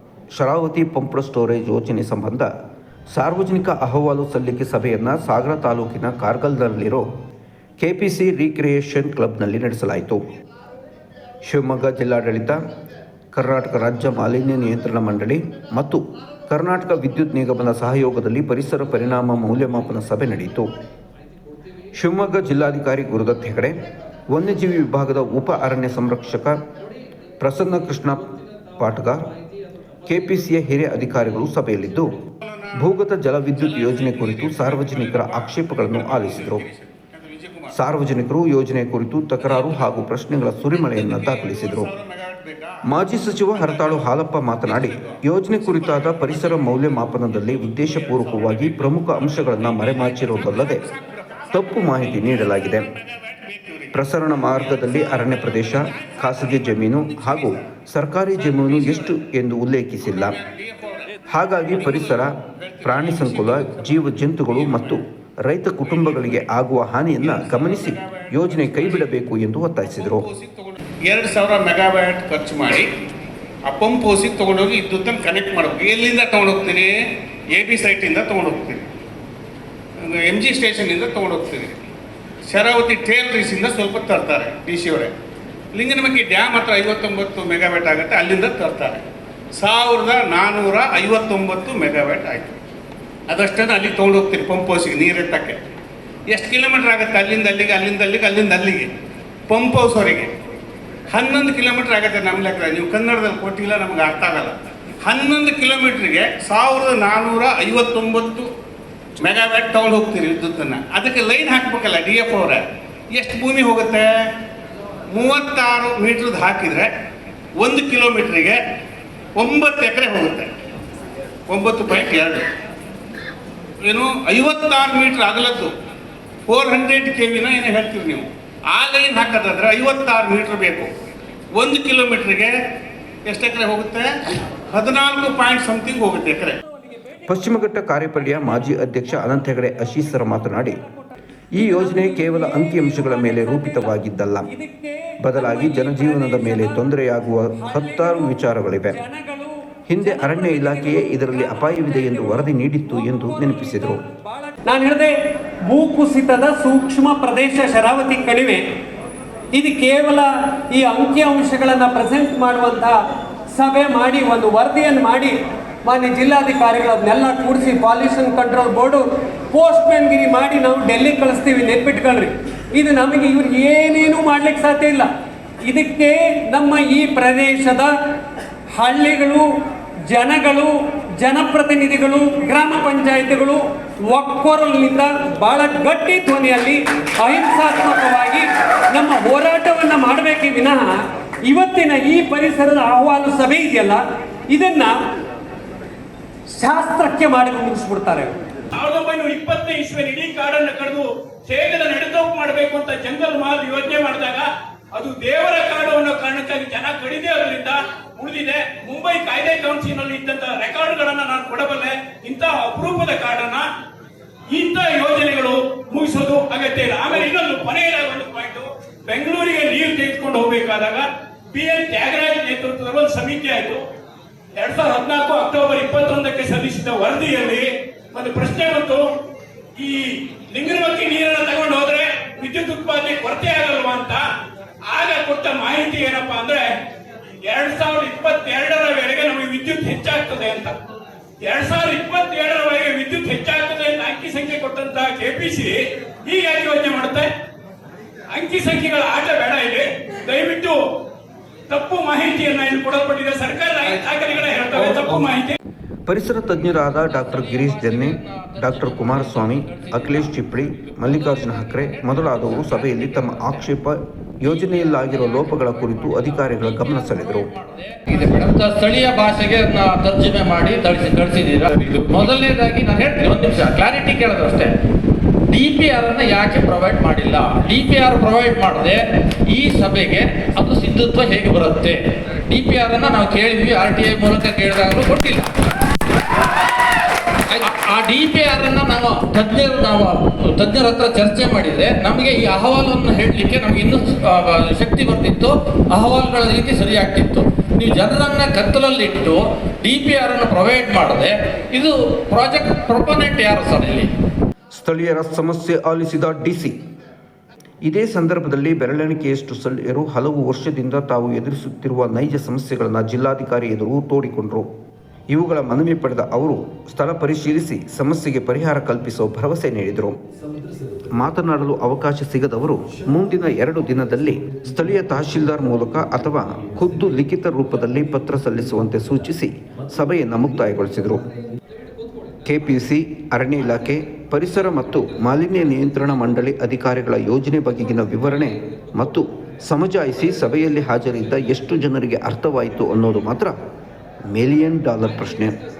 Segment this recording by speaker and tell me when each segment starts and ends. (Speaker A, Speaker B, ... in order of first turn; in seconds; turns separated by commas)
Speaker A: 0.3-2.5, Speaker A: 3.1-7.1, Speaker A: 7.8-10.2, Speaker A: 11.4-12.6, Speaker A: 13.3-20.7, Speaker A: 21.9-26.6, Speaker A: 27.4-29.3, Speaker A: 30.1-32.2, Speaker B: 32.4-32.8, Speaker A: 32.8-36.6, Speaker B: 33.5-37.7, Speaker A: 37.7-41.9, Speaker B: 39.4-40.0, Speaker B: 40.7-42.8, Speaker A: 42.9-50.8, Speaker B: 43.5-54.0, Speaker A: 51.5-52.9, Speaker A: 53.9-60.4, Speaker B: 54.5-57.5, Speaker B: 58.4-59.1, Speaker B: 60.1-61.1, Speaker A: 61.3-70.2, Speaker B: 61.7-65.0, Speaker B: 65.8-66.3, Speaker B: 67.2-69.3, Speaker B: 70.0-72.9, Speaker B: 73.6-76.9, Speaker B: 77.5-78.9, Speaker B: 80.0-81.9, Speaker B: 82.5-85.1, Speaker B: 85.7-89.0, Speaker B: 89.6-92.6, Speaker B: 93.3-95.6, Speaker B: 96.3-98.9, Speaker B: 99.5-100.3, Speaker B: 101.1-108.5, Speaker B: 109.2-114.1, Speaker B: 115.1-116.9, Speaker B: 117.6-118.6, Speaker B: 119.4-120.5, Speaker B: 121.5-122.5, Speaker B: 123.8-125.7, Speaker B: 126.5-130.9, Speaker B: 131.5-132.6, Speaker B: 133.2-134.1, Speaker B: 134.7-136.6, Speaker C: 136.6-137.6, Speaker A: 137.3-140.8, Speaker C: 139.8-146.9, Speaker A: 141.5-144.5, Speaker A: 145.2-149.0, Speaker C: 147.5-155.1, Speaker A: 149.9-154.0, Speaker C: 155.7-158.6, Speaker C: 159.5-163.0, Speaker C: 163.5-175.1, Speaker C: 175.6-177.9, Speaker C: 178.7-179.5, Speaker C: 180.1-194.9, Speaker C: 196.5-198.3, Speaker D: 198.7-213.7, Speaker D: 214.5-223.8, Speaker D: 224.6-229.0, Speaker D: 229.8-234.2, Speaker D: 234.9-236.7, Speaker D: 237.4-240.8, Speaker D: 241.4-247.3, Speaker D: 248.3-250.8, Speaker D: 251.7-255.6, Speaker A: 254.7-255.3, Speaker A: 256.1-267.5, Speaker E: 256.8-263.7, Speaker E: 264.4-274.7, Speaker E: 275.5-285.5, Speaker E: 287.5-304.1, Speaker A: 304.7-306.8, Speaker A: 307.9-314.6, Speaker A: 315.3-320.2, Speaker A: 321.1-331.2, Speaker A: 332.4-343.5, Speaker A: 344.3-345.6